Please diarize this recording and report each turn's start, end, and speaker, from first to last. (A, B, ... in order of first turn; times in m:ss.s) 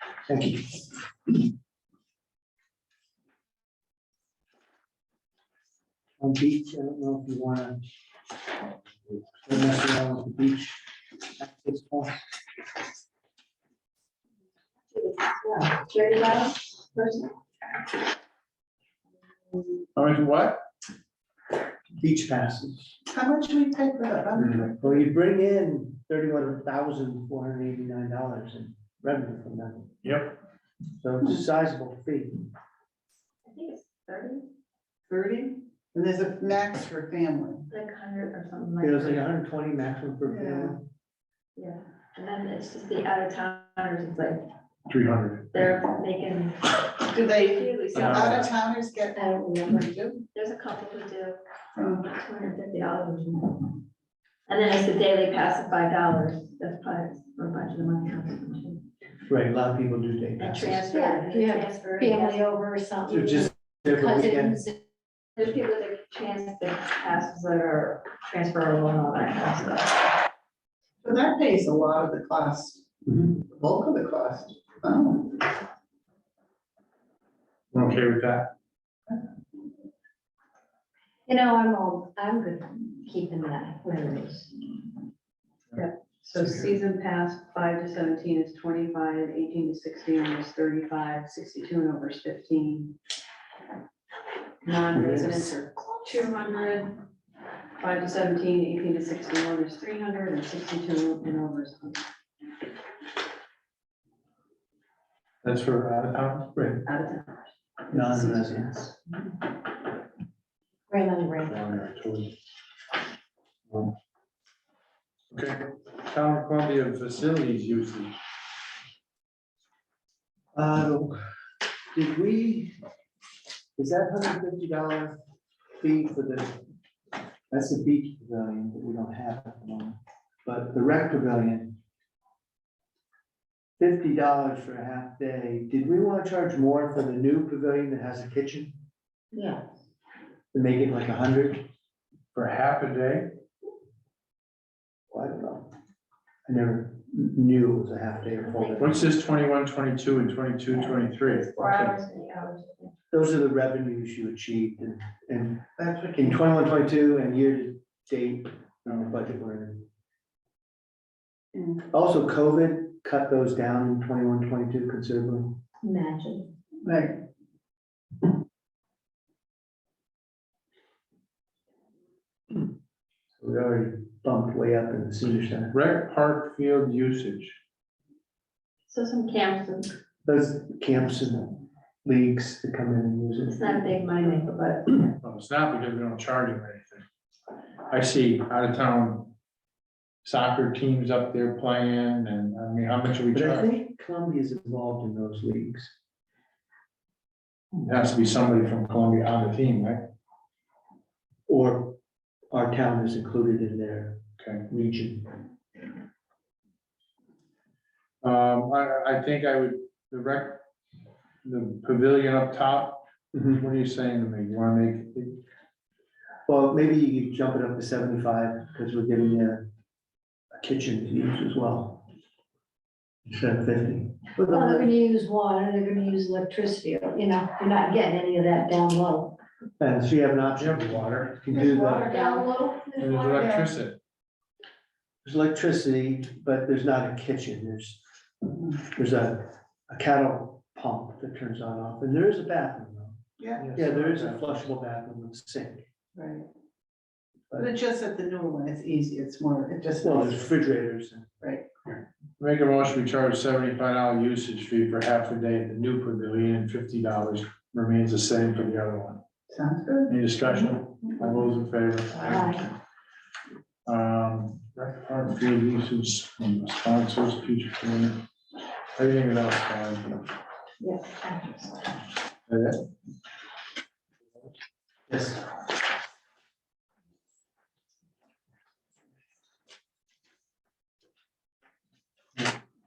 0:00.3-0:00.8 A
0:06.2-0:07.8 A
0:09.4-0:10.8 A
0:11.4-0:12.3 A
0:14.9-0:17.3 B
0:20.0-0:20.6 C
0:22.0-0:23.0 A
0:23.1-0:25.0 D
0:24.4-0:29.9 A
0:30.0-0:30.4 C
0:31.0-0:32.5 A
0:33.4-0:34.4 B
0:35.1-0:37.7 D
0:37.7-0:39.3 B
0:38.8-0:40.8 A
0:40.3-0:40.7 D
0:41.6-0:44.4 B
0:44.9-0:45.5 C
0:45.5-0:48.5 B
0:47.1-0:50.2 D
0:48.0-0:48.4 C
0:49.2-0:49.9 E
0:50.3-0:51.4 B
0:51.8-0:52.1 D
0:52.1-0:53.8 B
0:54.5-0:58.8 B
0:59.2-1:00.8 A
1:00.4-1:02.4 B
1:00.9-1:04.8 E
1:03.1-1:04.6 A
1:05.4-1:10.2 B
1:11.0-1:15.5 D
1:17.7-1:18.5 C
1:21.3-1:24.5 E
1:25.7-1:33.0 F
1:34.6-1:37.0 F
1:34.9-1:35.5 A
1:37.8-1:42.1 F
1:45.4-1:46.6 C
1:46.6-1:46.8 A
1:46.8-1:48.7 F
1:47.9-1:48.9 A
1:50.9-1:51.8 E
1:51.4-1:52.3 C
1:55.3-1:58.1 C
2:00.6-2:01.2 A
2:01.9-2:02.8 A
2:03.8-2:05.2 A
2:05.8-2:06.6 A
2:07.5-2:11.8 A
2:13.8-2:18.8 A
2:20.5-2:21.6 A
2:22.3-2:23.3 C
2:25.1-2:25.7 A
2:26.5-2:29.1 A
2:28.4-2:29.2 B
2:28.8-2:32.0 C
2:30.7-2:32.9 B
2:33.1-2:39.9 A
2:35.8-2:36.4 D
2:38.9-2:39.2 C
2:41.9-2:45.6 A
2:45.8-2:46.5 E
2:46.8-2:47.2 D
2:53.4-2:55.7 A
2:55.7-2:57.6 C
2:58.9-2:59.9 B
3:00.2-3:03.7 A
3:03.5-3:05.1 B
3:05.2-3:07.0 C
3:07.9-3:09.3 C
3:10.2-3:13.7 C
3:13.3-3:15.9 A
3:17.7-3:20.0 C
3:21.5-3:22.0 A
3:22.5-3:25.4 A
3:24.4-3:24.6 C
3:28.2-3:30.6 C
3:31.4-3:33.0 C
3:33.3-3:33.6 A
3:33.6-3:35.4 C
3:36.5-3:39.6 A
3:40.6-3:42.0 A
3:43.3-3:44.4 A
3:44.4-3:49.4 E
3:49.8-3:52.1 A
3:50.6-3:51.5 C
3:51.5-3:53.5 E
3:51.7-3:52.4 D
3:53.0-3:54.0 C
3:53.0-3:53.7 D
3:55.2-3:58.0 A
3:58.8-4:03.2 A
4:03.4-4:03.7 D
4:03.6-4:04.7 C
4:03.7-4:05.8 A
4:06.2-4:06.5 D
4:07.5-4:10.5 D
4:10.0-4:11.3 A
4:11.4-4:11.7 D
4:12.4-4:19.2 C
4:19.5-4:20.2 D
4:20.1-4:22.8 C
4:22.2-4:22.6 E
4:23.8-4:28.1 C
4:29.0-4:30.2 C
4:30.8-4:31.7 B
4:32.5-4:32.8 C
4:35.1-4:35.4 A